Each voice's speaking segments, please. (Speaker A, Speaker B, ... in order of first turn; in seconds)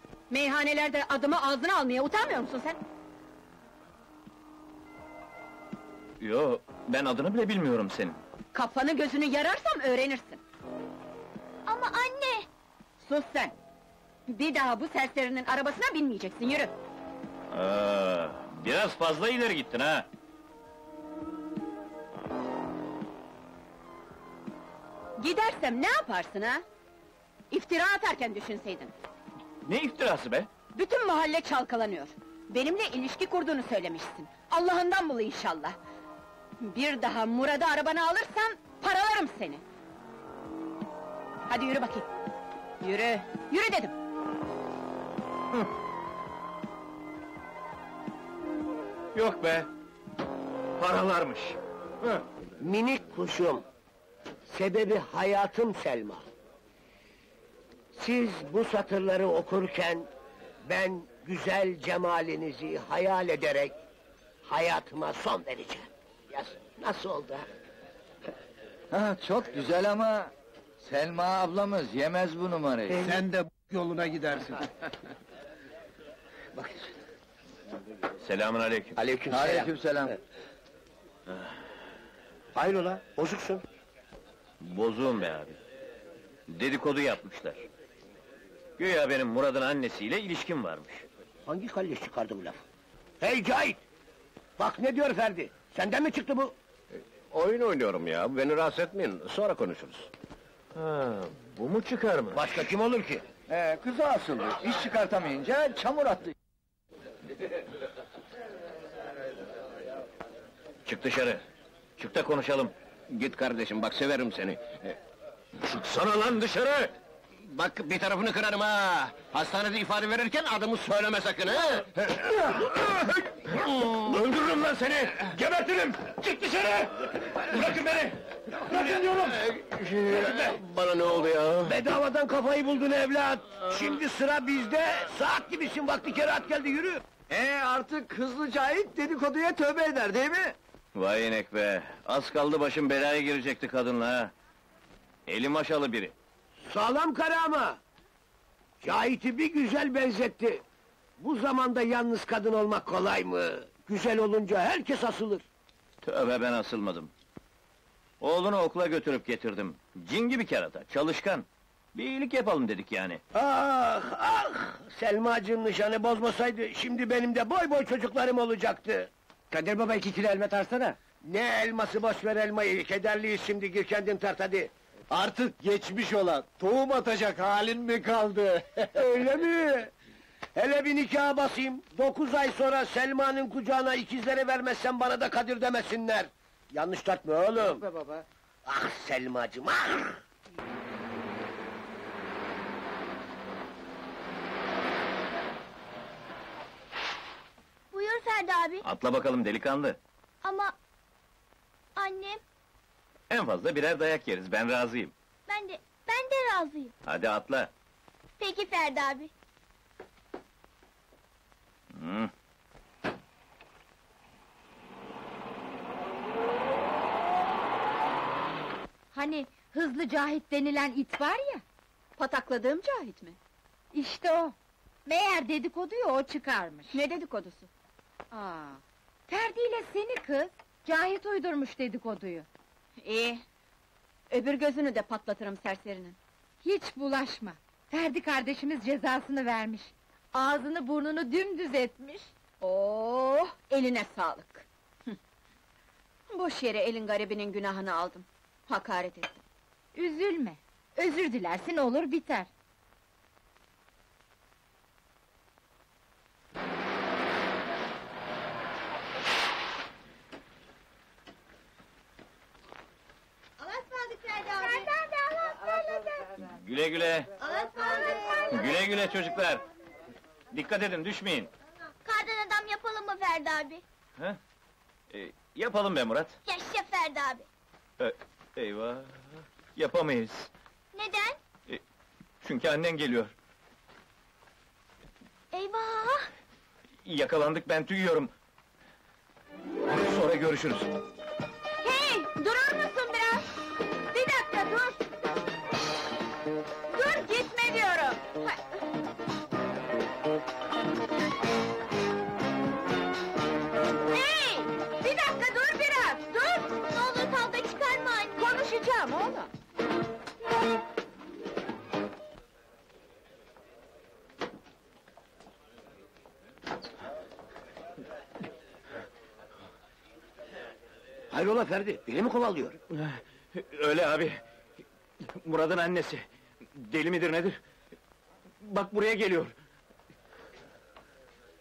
Speaker A: 0.3-2.8, 8.5-10.4, 13.0-13.5, 14.3-16.7, 25.2-26.6, 27.5-28.9, 30.7-35.8, 36.6-39.6, 41.5-42.1, 42.8-43.9, 222.2-223.4, 226.9-227.7, 233.0-233.4, 234.3-236.2, 242.6-245.2, 246.3-249.4, 308.4-309.5
Speaker B: 6.2-8.2, 17.5-20.1, 29.6-30.5, 49.1-49.7, 50.8-52.2, 78.2-78.9, 84.6-85.6, 86.5-87.7, 88.8-91.0, 100.7-102.7, 110.8-111.4, 112.0-112.7, 115.6-116.8, 140.9-144.3, 145.3-146.1, 156.0-157.1, 158.2-163.2, 198.8-200.0, 203.3-205.1, 207.1-207.7, 211.9-212.3, 266.4-267.3, 268.5-269.6, 270.5-271.5, 275.1-276.4, 278.0-280.5, 282.4-283.3, 287.0-288.3, 289.9-290.9, 322.9-324.4, 325.2-327.6, 328.6-329.5
Speaker C: 11.7-12.5, 197.9-198.8, 200.4-200.7, 202.0-202.4, 205.5-206.9, 208.4-209.3, 264.5-266.1, 272.0-273.8, 276.4-277.4, 280.9-281.4, 285.5-286.3, 306.3-308.5
Speaker D: 52.6-53.6, 54.5-56.2, 57.9-60.1, 60.6-63.7, 64.4-67.5, 79.0-79.7, 82.5-83.6, 91.5-92.6, 93.2-93.8, 94.6-96.5, 102.3-103.2, 131.6-137.0, 146.7-147.8, 148.8-150.6, 151.2-155.4, 163.3-169.1, 171.2-174.7, 178.9-179.9, 180.6-187.9, 188.7-190.2, 321.3-322.8
Speaker E: 68.9-73.2, 79.3-80.1, 103.5-106.3, 137.3-140.6
Speaker F: 72.9-74.6, 125.3-126.3, 169.5-170.9, 175.1-178.5
Speaker G: 97.3-100.1, 113.1-115.0, 115.9-116.9, 117.4-122.3, 123.4-125.3, 128.7-131.8
Speaker H: 219.1-221.6, 223.9-226.9, 228.3-232.5, 236.6-242.3, 249.9-252.5, 263.6-264.5, 291.8-293.4, 294.1-295.0, 296.9-298.5, 304.8-306.3